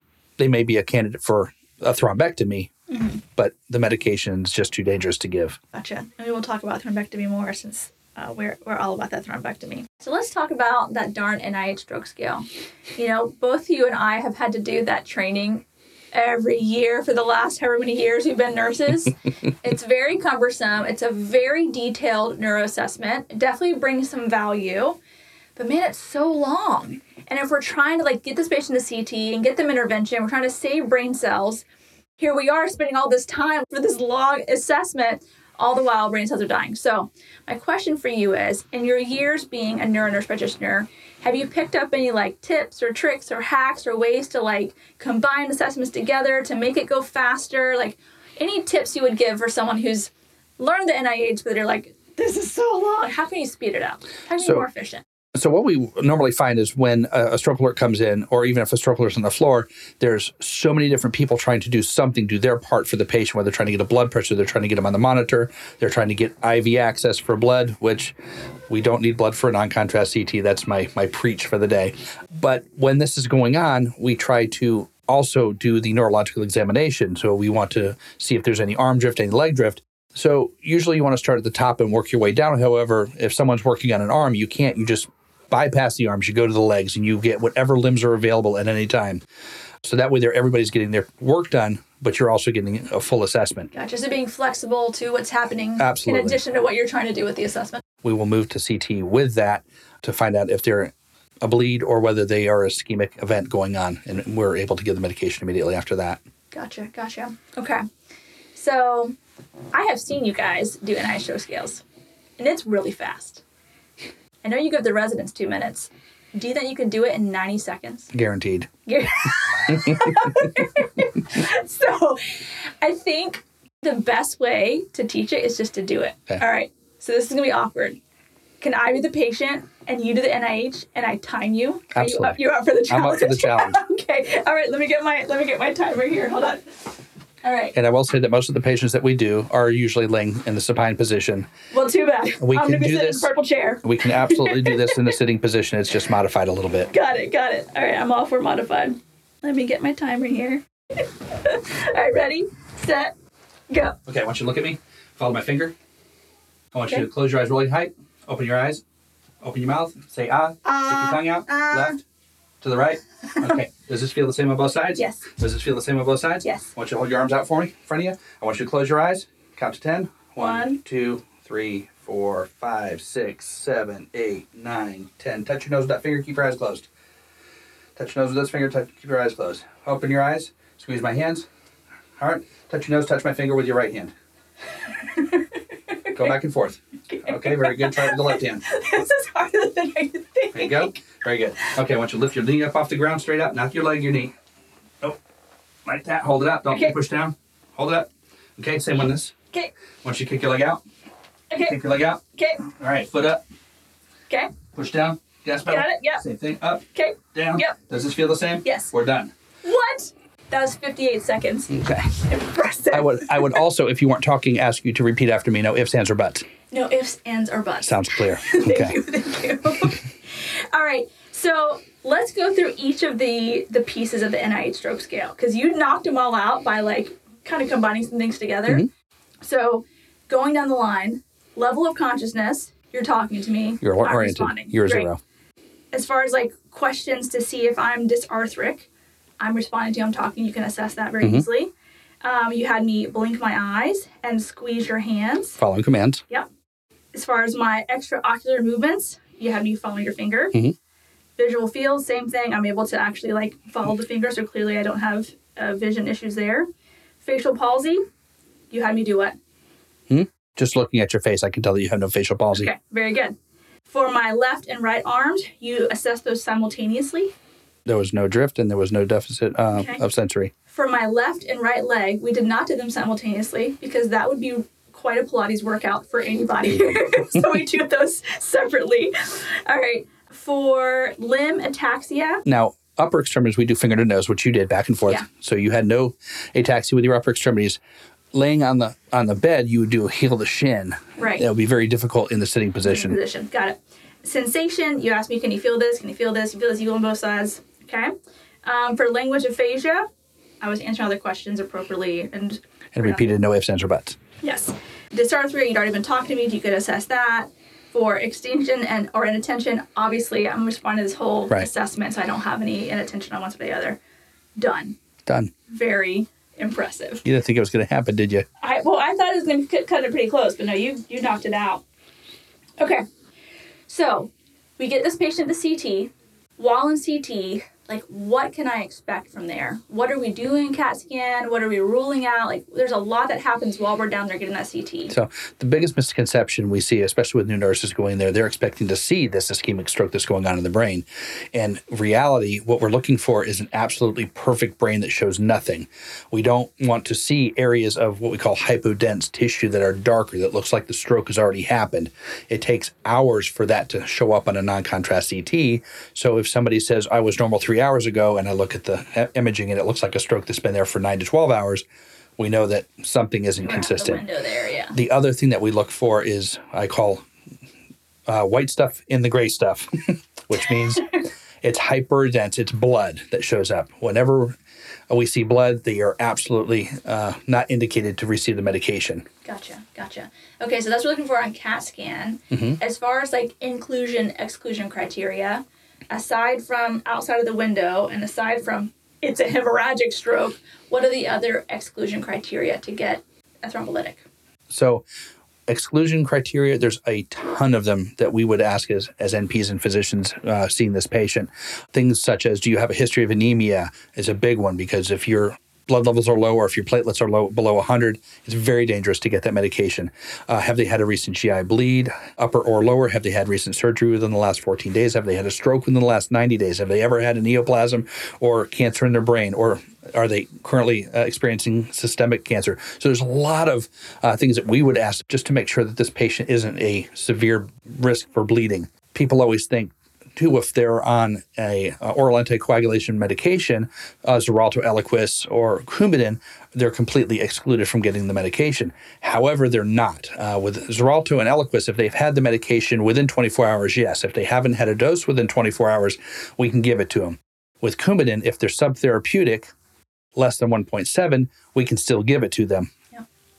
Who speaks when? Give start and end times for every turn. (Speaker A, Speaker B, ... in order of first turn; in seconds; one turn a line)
Speaker A: 0.4-2.7
Speaker B: 2.9-3.2
Speaker A: 3.4-5.6
Speaker B: 5.7-25.0
Speaker B: 25.6-31.6
Speaker B: 32.2-55.0
Speaker A: 54.4-54.7
Speaker A: 55.4-68.1
Speaker A: 68.7-89.2
Speaker A: 89.8-93.7
Speaker B: 93.7-97.8
Speaker A: 95.8-96.4
Speaker A: 98.0-106.2
Speaker B: 106.5-107.8
Speaker B: 108.5-109.2
Speaker B: 109.7-111.8
Speaker B: 112.4-113.4
Speaker B: 114.4-118.1
Speaker A: 118.1-118.7
Speaker B: 118.9-128.0
Speaker A: 119.7-120.5
Speaker B: 128.6-136.9
Speaker A: 131.9-133.8
Speaker B: 137.4-137.8
Speaker A: 137.7-141.5
Speaker B: 141.7-145.2
Speaker A: 142.4-143.3
Speaker A: 143.8-146.9
Speaker B: 146.9-153.1
Speaker B: 153.7-154.0
Speaker A: 154.1-155.7
Speaker A: 156.7-158.8
Speaker A: 159.4-162.0
Speaker B: 160.6-162.0
Speaker A: 162.6-176.9
Speaker B: 164.9-165.3
Speaker B: 166.4-166.7
Speaker B: 170.4-170.8
Speaker A: 178.0-181.5
Speaker A: 182.2-184.1
Speaker B: 184.9-186.3
Speaker A: 186.1-188.6
Speaker B: 187.1-191.0
Speaker A: 190.5-194.3
Speaker A: 195.9-199.3
Speaker B: 196.7-197.0
Speaker A: 200.0-200.8
Speaker B: 201.5-201.8
Speaker A: 201.7-203.4
Speaker B: 202.3-202.7
Speaker A: 204.7-209.3
Speaker B: 205.7-206.2
Speaker B: 206.9-207.8
Speaker B: 208.7-208.9
Speaker B: 209.6-213.6
Speaker A: 211.7-212.2
Speaker A: 212.9-216.5
Speaker B: 216.7-228.9
Speaker A: 217.8-219.0
Speaker B: 229.4-235.1
Speaker A: 233.8-235.2
Speaker B: 235.9-238.9
Speaker B: 239.4-241.7
Speaker B: 242.2-245.6
Speaker A: 245.6-246.2
Speaker B: 247.1-250.6
Speaker B: 251.4-256.7
Speaker B: 257.2-258.0
Speaker B: 258.7-259.4
Speaker A: 260.1-262.7
Speaker B: 262.5-267.3
Speaker A: 267.9-270.5
Speaker B: 269.7-270.0
Speaker B: 270.7-282.4
Speaker A: 282.4-287.8
Speaker A: 288.3-293.2
Speaker B: 291.2-291.4
Speaker B: 292.8-298.1
Speaker B: 298.6-300.1
Speaker B: 300.6-303.3
Speaker A: 302.9-304.2
Speaker B: 304.4-314.0
Speaker B: 314.6-315.0
Speaker A: 315.3-315.5
Speaker B: 315.7-317.2
Speaker A: 317.2-318.5
Speaker B: 318.6-321.8
Speaker B: 323.9-335.1
Speaker A: 335.1-361.9
Speaker A: 362.4-364.2
Speaker B: 363.6-364.9
Speaker A: 364.9-367.2
Speaker A: 368.3-371.1
Speaker B: 370.6-371.2
Speaker A: 371.6-374.6
Speaker A: 375.1-379.3
Speaker B: 379.4-394.2
Speaker A: 382.5-382.8
Speaker A: 394.7-395.1
Speaker A: 395.7-449.7
Speaker A: 450.4-452.9